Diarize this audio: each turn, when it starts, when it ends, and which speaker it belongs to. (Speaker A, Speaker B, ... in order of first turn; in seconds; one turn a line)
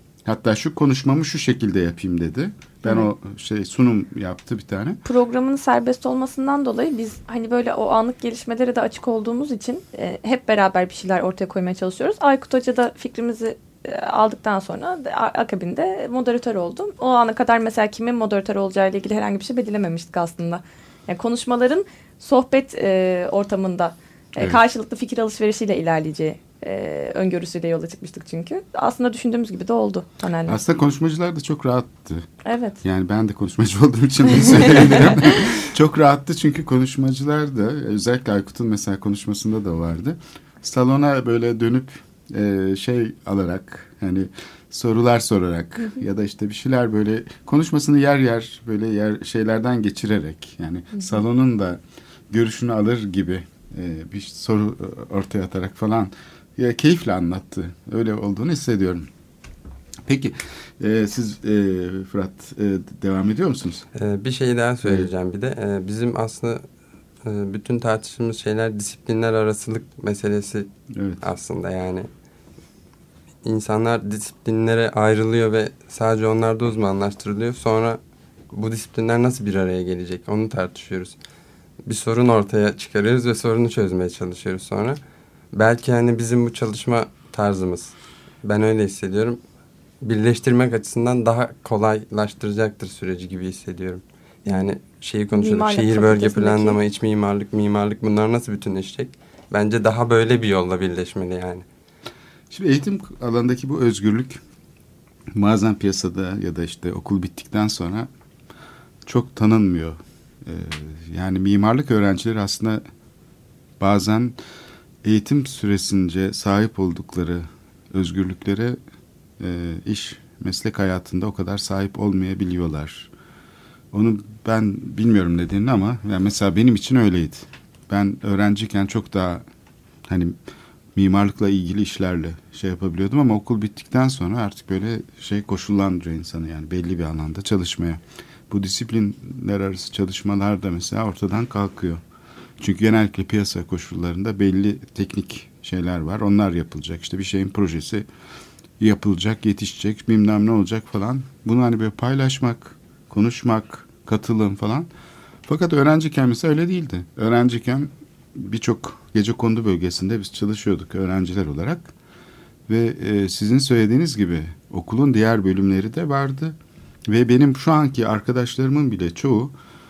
Speaker A: 0.2-5.0
Speaker B: 5.0-30.6
Speaker A: 30.5-32.3
Speaker B: 32.4-32.8
Speaker A: 32.8-59.1
Speaker A: 60.0-63.9
Speaker C: 63.9-66.6
Speaker A: 64.8-65.1
Speaker C: 67.2-70.7
Speaker A: 70.9-71.2
Speaker C: 71.2-72.1
Speaker C: 73.4-78.0
Speaker C: 78.5-81.2
Speaker C: 81.8-85.0
Speaker C: 85.5-89.4
Speaker C: 90.0-101.6
Speaker B: 95.3-96.8
Speaker A: 102.5-104.4
Speaker A: 105.3-108.1
Speaker A: 109.0-112.8
Speaker A: 113.8-114.4
Speaker A: 115.0-118.8
Speaker A: 119.4-123.1
Speaker A: 123.9-129.4
Speaker A: 130.1-130.4
Speaker A: 130.9-142.0
Speaker A: 142.6-148.1
Speaker A: 148.8-154.9
Speaker A: 155.5-161.9
Speaker A: 162.7-169.5